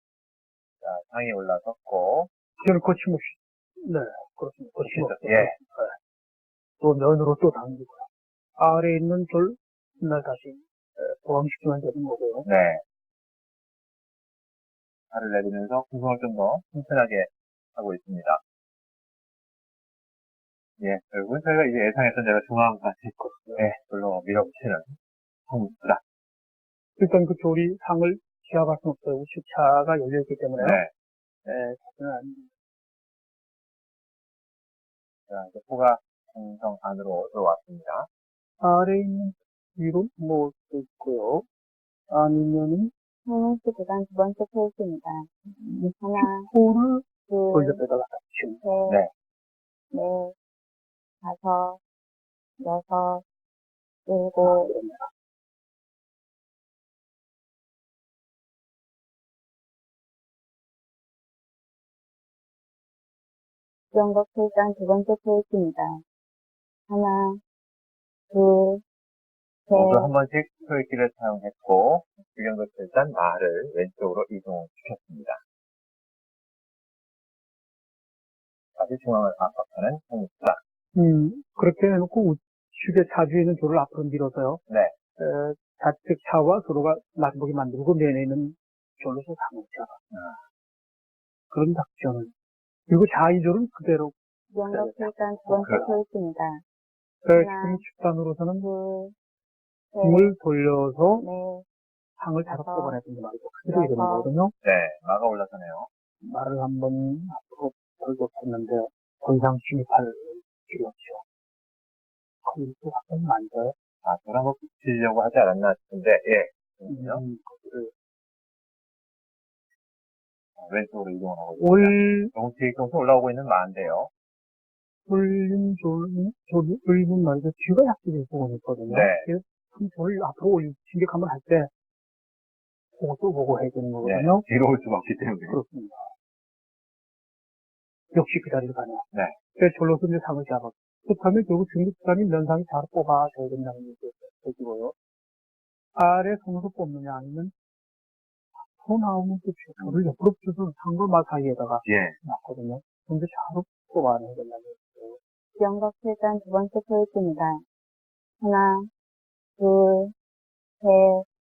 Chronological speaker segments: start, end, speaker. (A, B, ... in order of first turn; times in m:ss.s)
0:00.8-0:02.3 A
0:02.6-0:06.0 B
0:04.8-0:05.6 A
0:06.8-0:08.1 B
0:08.6-0:12.5 B
0:12.4-0:12.8 A
0:15.1-0:18.4 A
0:20.8-0:25.0 A
0:23.3-0:23.6 B
0:25.5-0:26.0 A
0:27.0-0:30.8 B
0:30.6-0:30.9 A
0:31.4-0:32.5 B
0:35.3-0:38.1 A
0:38.6-0:41.4 B
0:42.1-0:42.9 B
0:43.3-0:46.5 C
0:46.2-0:48.6 B
0:47.3-0:47.8 C
0:48.6-0:49.0 C
0:49.9-0:50.4 C
0:51.2-0:51.8 C
0:52.6-0:53.2 C
0:54.1-0:54.7 C
0:54.4-0:55.1 B
1:03.9-1:06.0 C
1:06.9-1:07.4 C
1:08.3-1:08.8 C
1:09.7-1:10.1 C
1:09.7-1:15.4 A
1:18.8-1:20.6 A
1:21.0-1:24.6 B
1:24.7-1:25.0 A
1:25.2-1:30.0 B
1:30.1-1:30.4 A
1:31.5-1:32.3 B
1:32.9-1:34.1 B
1:34.5-1:36.6 C
1:34.7-1:36.0 B
1:35.6-1:35.9 A
1:37.2-1:38.7 B
1:37.3-1:37.8 C
1:38.6-1:39.2 C
1:39.9-1:40.4 C
1:40.0-1:41.2 B
1:41.2-1:41.6 C
1:42.2-1:44.5 B
1:42.5-1:43.0 C
1:43.7-1:44.3 C
1:44.6-1:45.9 A
1:46.2-1:51.2 B
1:52.4-1:53.7 B
1:54.0-1:57.2 A
1:56.9-1:57.9 B
2:00.6-2:04.1 A
2:01.6-2:02.3 B
2:05.1-2:11.7 B
2:08.9-2:09.3 A
2:13.0-2:14.4 B
2:14.0-2:15.6 A
2:15.5-2:16.1 B
2:18.1-2:19.0 B
2:19.6-2:24.9 B
2:26.0-2:27.5 B
2:28.8-2:35.2 B
2:31.8-2:32.2 A
2:35.6-2:37.6 C
2:38.4-2:38.9 C
2:39.6-2:40.1 C
2:40.8-2:41.3 C